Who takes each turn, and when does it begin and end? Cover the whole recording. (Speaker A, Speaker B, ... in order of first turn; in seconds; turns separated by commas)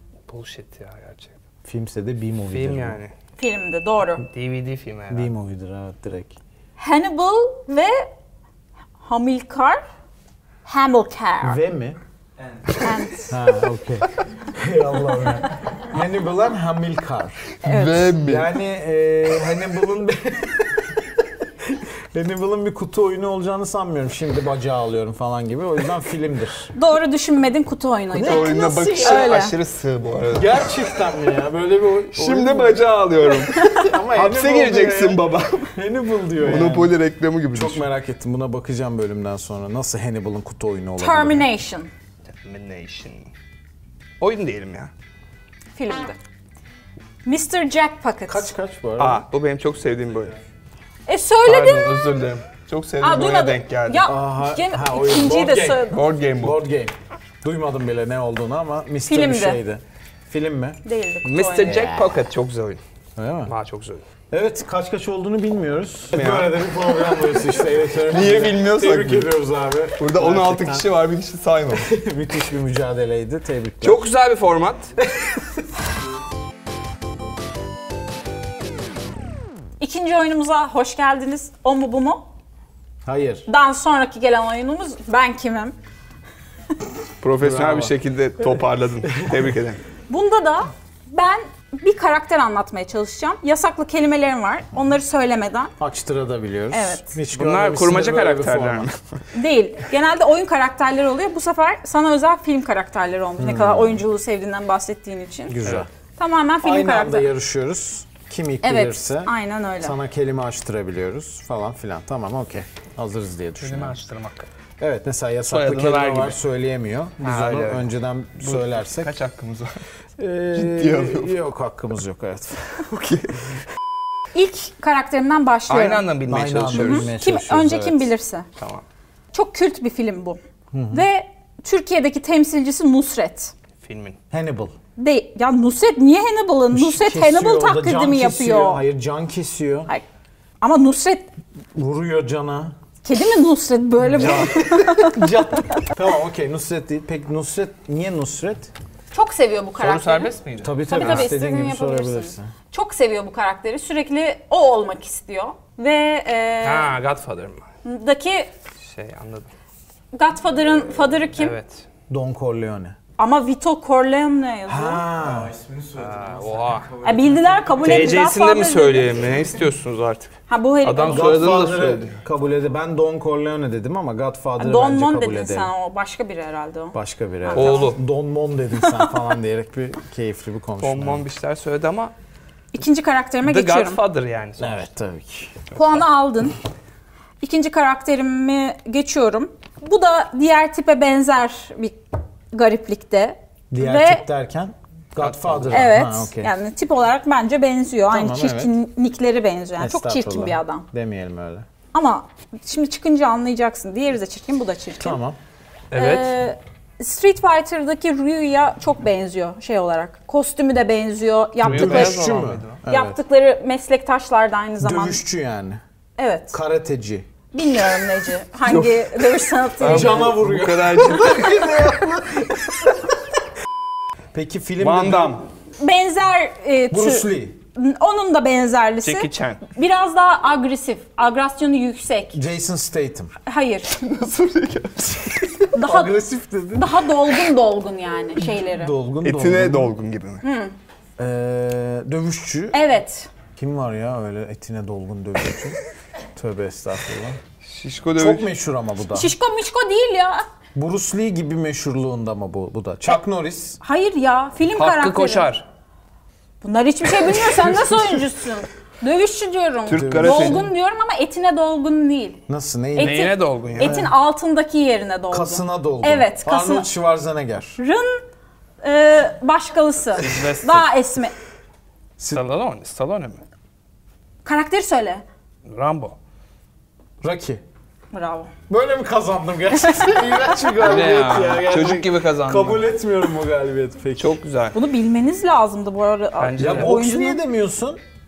Speaker A: 0.3-1.4, Speaker B: 1.6-3.0, Speaker A: 2.5-3.1, Speaker C: 3.4-4.3, Speaker A: 4.3-5.3, Speaker B: 5.1-6.4, Speaker C: 6.8-8.1, Speaker C: 9.0-9.8, Speaker C: 10.7-11.6, Speaker B: 11.4-12.0, Speaker D: 12.4-12.9, Speaker C: 12.8-13.4, Speaker B: 13.3-17.5, Speaker C: 17.6-18.2, Speaker A: 17.6-18.5, Speaker B: 18.2-26.7, Speaker C: 26.8-29.5, Speaker B: 28.1-29.4, Speaker A: 28.2-30.7, Speaker B: 30.3-32.8, Speaker A: 32.1-35.7, Speaker B: 33.5-35.2, Speaker B: 35.8-37.0, Speaker A: 36.4-37.8, Speaker B: 37.5-41.5, Speaker C: 41.0-41.9, Speaker A: 42.4-43.3, Speaker A: 44.2-44.9, Speaker C: 45.8-46.2, Speaker C: 47.2-48.5, Speaker B: 48.3-49.2, Speaker A: 49.0-50.4, Speaker C: 51.1-52.0, Speaker A: 51.5-54.1, Speaker C: 53.0-56.0, Speaker B: 54.0-60.8, Speaker A: 55.9-56.6, Speaker C: 59.1-59.6, Speaker C: 60.9-61.9, Speaker A: 61.2-62.8, Speaker B: 61.6-62.1, Speaker B: 63.2-63.5, Speaker A: 63.5-64.0, Speaker B: 64.3-70.9, Speaker A: 66.1-66.6, Speaker A: 68.1-69.3, Speaker A: 70.0-71.9, Speaker B: 71.7-74.1, Speaker A: 73.8-74.9, Speaker C: 79.8-82.2, Speaker B: 83.0-83.5, Speaker C: 83.5-85.8, Speaker A: 87.2-89.8, Speaker B: 87.4-87.9, Speaker C: 90.1-95.7, Speaker B: 95.8-98.9, Speaker C: 96.7-97.1, Speaker A: 97.3-99.0, Speaker C: 99.3-105.6, Speaker B: 103.4-104.0, Speaker B: 105.5-105.9, Speaker A: 105.6-105.9, Speaker C: 106.2-107.3, Speaker B: 106.6-114.0, Speaker C: 108.6-109.9, Speaker A: 113.6-114.5, Speaker B: 114.8-119.1, Speaker A: 115.5-116.4, Speaker A: 117.2-119.8, Speaker B: 120.2-122.9, Speaker A: 120.5-121.3, Speaker A: 122.8-123.5, Speaker C: 124.3-126.1, Speaker A: 125.7-127.1, Speaker B: 126.3-128.1, Speaker C: 126.7-128.5, Speaker A: 128.6-128.8, Speaker C: 129.3-130.4, Speaker B: 130.7-131.1, Speaker C: 130.9-133.5, Speaker A: 133.8-134.2, Speaker B: 134.3-134.8, Speaker C: 135.0-138.8, Speaker B: 136.7-139.9, Speaker C: 140.6-141.3, Speaker B: 141.8-142.8, Speaker C: 143.0-145.8, Speaker B: 144.0-148.7, Speaker C: 149.1-150.3, Speaker A: 149.8-151.3, Speaker B: 150.6-152.5, Speaker C: 150.9-156.9, Speaker A: 156.6-157.7, Speaker C: 157.8-158.5, Speaker A: 158.8-159.5, Speaker C: 160.1-161.5, Speaker A: 161.4-161.9, Speaker B: 162.1-163.0, Speaker C: 163.2-165.0, Speaker B: 164.7-165.5, Speaker D: 165.2-168.1, Speaker A: 165.9-166.9, Speaker C: 167.0-169.2, Speaker A: 167.8-172.2, Speaker C: 170.5-171.4, Speaker B: 171.1-175.7, Speaker C: 174.6-177.9, Speaker B: 176.9-181.2, Speaker A: 177.5-178.0, Speaker C: 178.9-179.1, Speaker A: 180.8-182.1, Speaker C: 182.7-184.0, Speaker A: 183.4-184.9, Speaker B: 184.6-185.7, Speaker A: 185.8-186.0, Speaker C: 185.8-186.6, Speaker C: 187.4-192.0, Speaker C: 192.5-194.3, Speaker B: 193.7-196.5, Speaker A: 195.2-195.9, Speaker C: 195.7-200.9, Speaker B: 198.1-198.7, Speaker B: 199.8-201.7, Speaker C: 201.9-205.2, Speaker B: 205.0-205.4, Speaker A: 205.9-206.4, Speaker C: 205.9-212.2, Speaker B: 211.6-213.2, Speaker A: 211.6-212.8, Speaker C: 212.9-215.2, Speaker B: 214.8-215.8, Speaker C: 216.2-216.6, Speaker B: 216.5-217.3, Speaker C: 217.5-220.4, Speaker A: 219.8-221.7, Speaker B: 219.8-222.9, Speaker C: 221.3-221.6, Speaker B: 224.3-225.4, Speaker A: 224.8-225.5, Speaker C: 225.8-232.4, Speaker B: 226.9-227.6, Speaker A: 229.0-229.6, Speaker B: 232.3-233.3, Speaker C: 233.5-234.0, Speaker A: 234.0-235.7, Speaker C: 235.7-236.2, Speaker B: 235.8-237.1, Speaker C: 236.8-238.9, Speaker B: 238.6-239.9, Speaker A: 239.2-240.4, Speaker C: 240.4-240.7, Speaker B: 241.2-242.8, Speaker C: 242.7-243.3, Speaker B: 243.6-245.8, Speaker B: 246.3-247.4, Speaker A: 247.6-248.5, Speaker B: 248.2-249.3, Speaker C: 249.1-250.5, Speaker B: 250.8-253.8, Speaker C: 253.8-255.5, Speaker A: 254.7-255.7, Speaker C: 256.6-262.4, Speaker A: 259.9-260.7, Speaker B: 259.9-260.7, Speaker B: 262.5-264.1, Speaker C: 263.0-266.9, Speaker A: 263.0-264.0, Speaker B: 265.3-267.8, Speaker C: 267.8-268.3, Speaker C: 268.8-271.3, Speaker A: 270.2-270.9, Speaker A: 272.3-273.4, Speaker C: 274.4-275.2, Speaker A: 275.6-276.2, Speaker B: 277.2-277.6, Speaker C: 278.1-278.5, Speaker B: 278.7-284.4, Speaker C: 279.8-280.5, Speaker A: 280.8-282.9, Speaker A: 284.2-284.8, Speaker C: 284.7-287.4, Speaker A: 286.4-286.9, Speaker B: 286.6-288.0